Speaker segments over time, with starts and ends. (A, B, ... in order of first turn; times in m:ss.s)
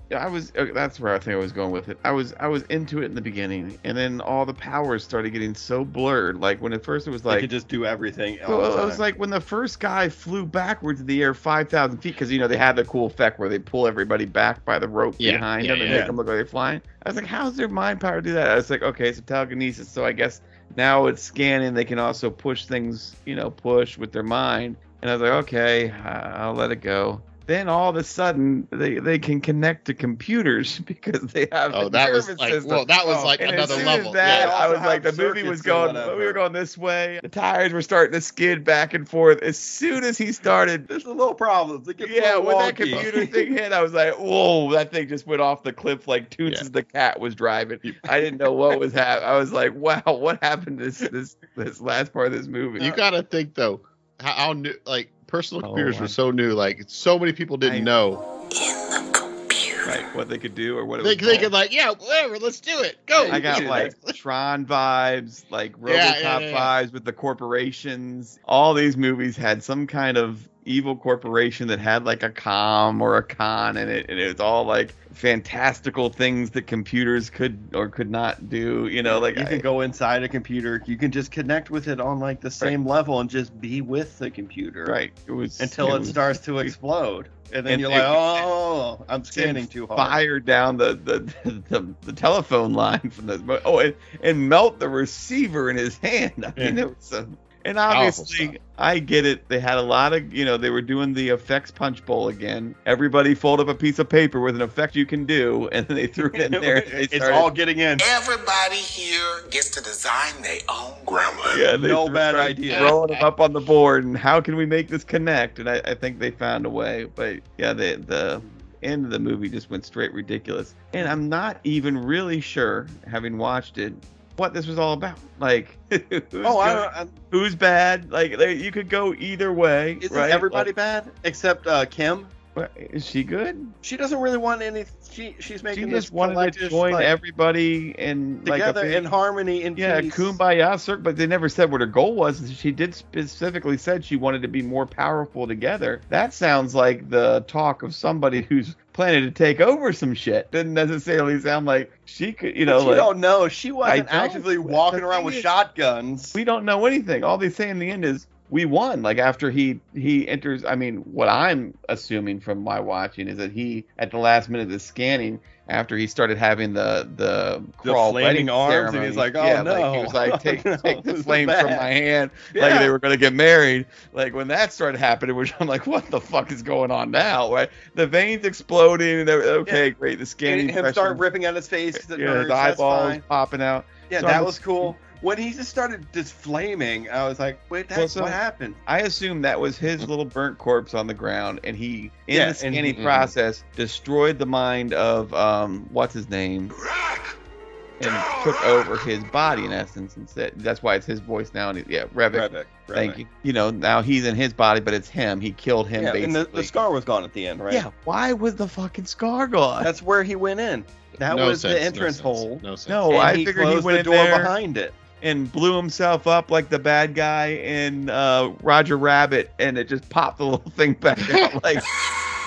0:00.1-0:07.5 A
0:07.3-0:09.0 B
0:08.5-0:40.9 A
0:15.2-0:16.1 C
0:15.8-0:16.2 B
0:31.7-0:34.6 C
0:33.1-0:36.4 B
0:40.9-0:43.5 B
0:42.0-0:53.0 A
0:52.8-0:58.2 C
0:55.6-0:56.2 A
0:57.6-0:57.9 A
0:58.6-0:59.8 D
0:59.8-1:01.5 A
1:01.0-1:04.2 C
1:03.2-1:03.9 B
1:03.3-1:19.6 A
1:05.8-1:06.7 C
1:19.0-1:25.0 B
1:24.9-1:26.8 A
1:25.6-1:30.2 B
1:27.7-1:28.5 A
1:29.3-1:47.5 A
1:37.9-1:38.6 C
1:46.3-1:48.1 B
1:48.0-1:51.6 D
1:51.5-2:10.7 A
1:51.8-1:53.0 B
1:52.7-1:53.2 C
2:06.4-2:07.2 B
2:10.0-2:12.3 B
2:12.6-2:13.8 A
2:13.8-2:17.1 B
2:15.7-2:19.0 A
2:18.4-2:20.4 B
2:19.8-2:33.1 A
2:32.7-2:36.4 B
2:33.8-2:35.5 A
2:36.4-3:01.2 A
2:47.8-2:51.9 B
2:52.5-2:52.9 B
3:00.4-3:03.2 B
3:02.0-3:04.9 A
3:04.1-3:08.8 B
3:07.9-3:16.8 A
3:12.3-3:13.0 B
3:12.9-3:13.3 C
3:18.0-3:26.7 A
3:22.3-3:23.2 B
3:26.0-3:27.8 B
3:27.7-3:29.9 A
3:29.8-3:35.0 B
3:31.2-3:33.2 C
3:32.9-3:34.6 A
3:35.2-3:41.9 A